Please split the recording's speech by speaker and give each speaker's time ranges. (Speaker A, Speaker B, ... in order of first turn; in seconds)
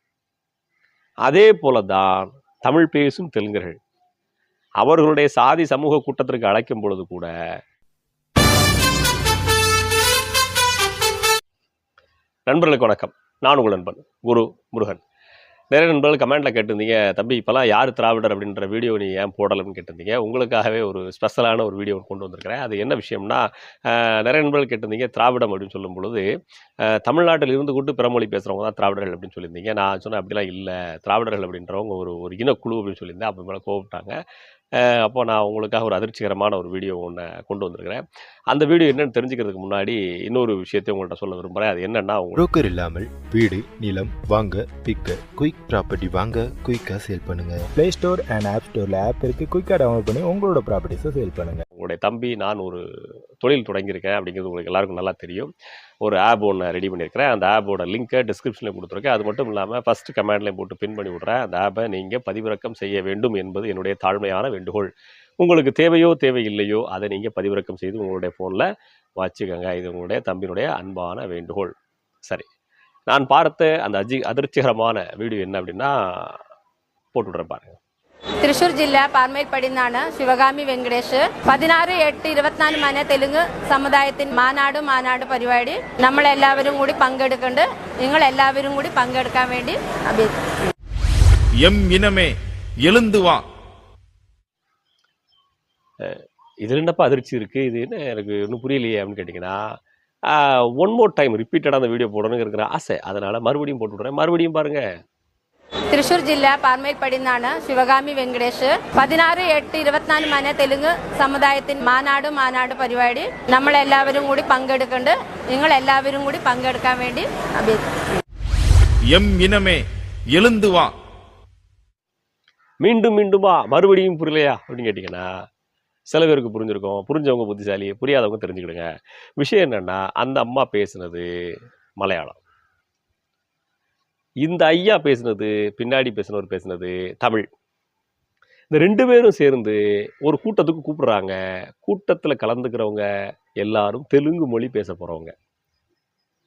Speaker A: 1.2-3.8, 4.8-7.3, 12.5-15.0, 15.7-26.3, 26.8-34.2, 34.7-42.4, 51.8-52.9, 53.4-71.7, 73.1-76.4, 77.1-77.8, 96.0-99.8, 100.3-104.9, 122.8-125.3, 126.1-132.4, 134.4-137.5, 138.7-143.1, 143.6-145.3
Speaker B: 42.4-47.7
Speaker C: 47.8-51.6
Speaker D: 78.4-90.7, 105.9-118.2
Speaker E: 91.6-93.4, 119.1-120.9